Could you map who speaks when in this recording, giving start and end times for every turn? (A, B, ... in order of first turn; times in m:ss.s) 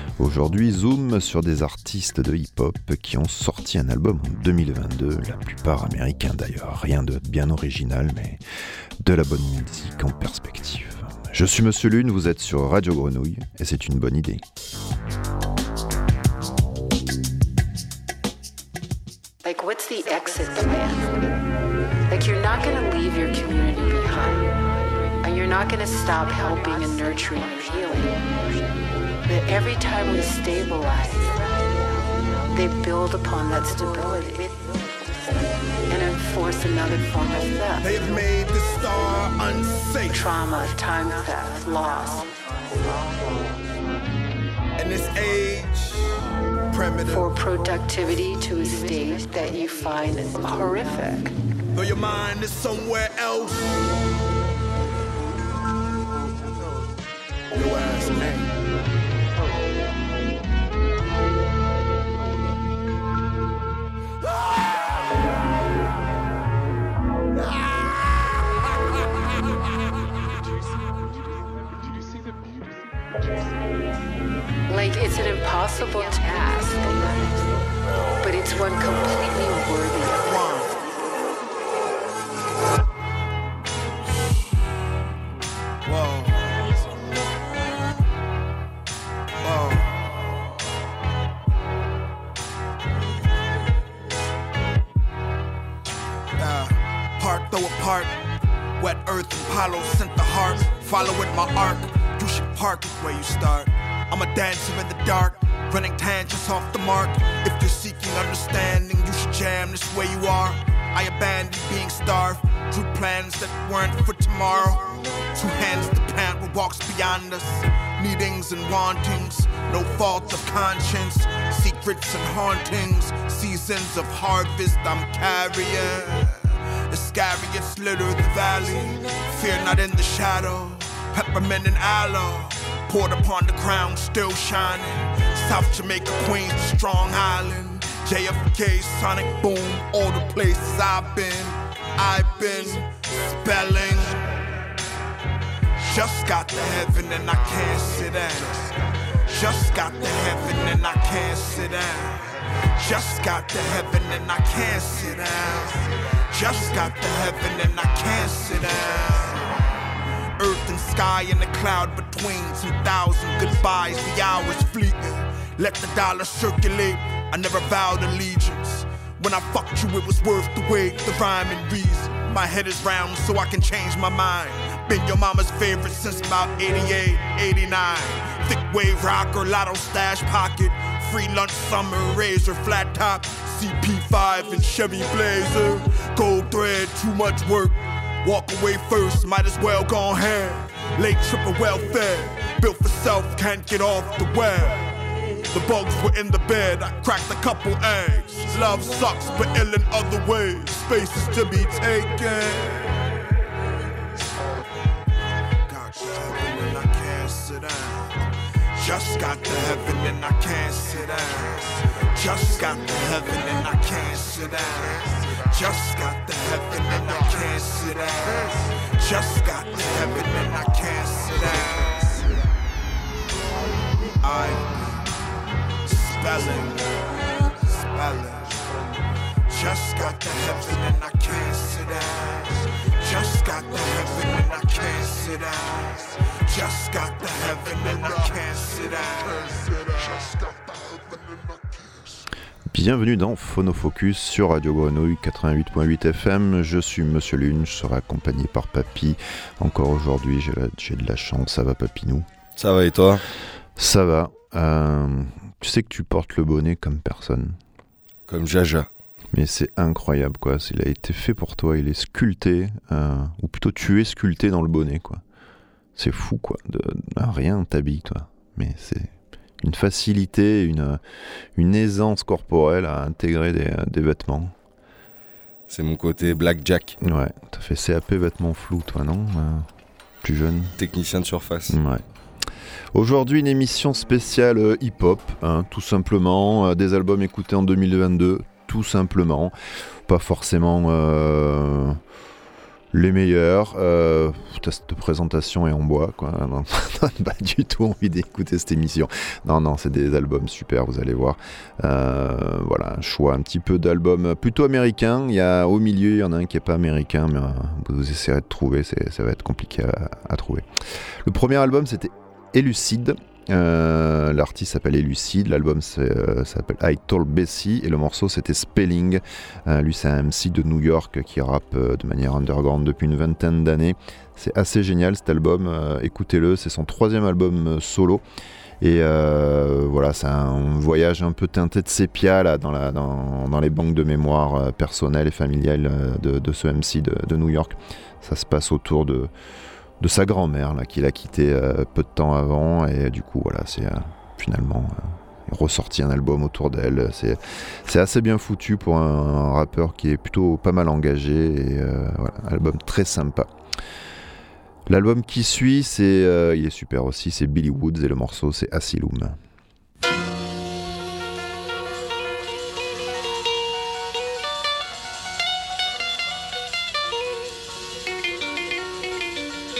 0:00.2-0:08.4 A
0:09.0-0:14.4 A
0:19.4-0:21.3 B
0:22.1-0:24.5 B
0:25.2-0:28.2 B
0:29.2-0:34.7 B
0:35.9-0:37.9 B
0:37.8-0:40.2 C
0:40.1-0:42.3 B
0:44.8-0:45.9 C
0:46.7-0:47.3 C
0:47.1-0:51.3 B
0:51.7-0:53.8 C
0:57.5-0:58.6 C
1:14.7-1:17.6 B
1:18.2-1:20.4 B
1:20.2-1:20.8 C
1:25.8-1:27.0 C
1:29.4-1:30.2 C
1:36.4-1:38.1 C
1:38.8-2:24.2 C
2:25.8-2:39.5 C
2:40.4-3:23.1 C
3:25.6-3:42.4 C
3:44.2-3:45.0 C
3:45.8-3:48.8 C
3:49.5-4:01.2 C
4:02.7-4:12.3 A
4:12.6-4:13.2 D
4:13.8-4:17.6 A
4:18.3-4:18.9 D
4:19.3-4:25.2 A
4:26.0-4:31.0 A
4:31.5-4:34.5 A
4:35.7-4:37.0 D
4:37.0-4:39.7 A
4:40.2-4:40.8 A
4:40.8-4:41.8 D
4:41.7-4:42.0 A
4:42.9-4:49.5 A
4:50.0-4:52.0 A
4:52.9-5:10.6 A
5:11.2-5:28.2 A
5:28.8-5:39.3 A
5:40.0-5:53.5 A
5:54.9-5:59.4 A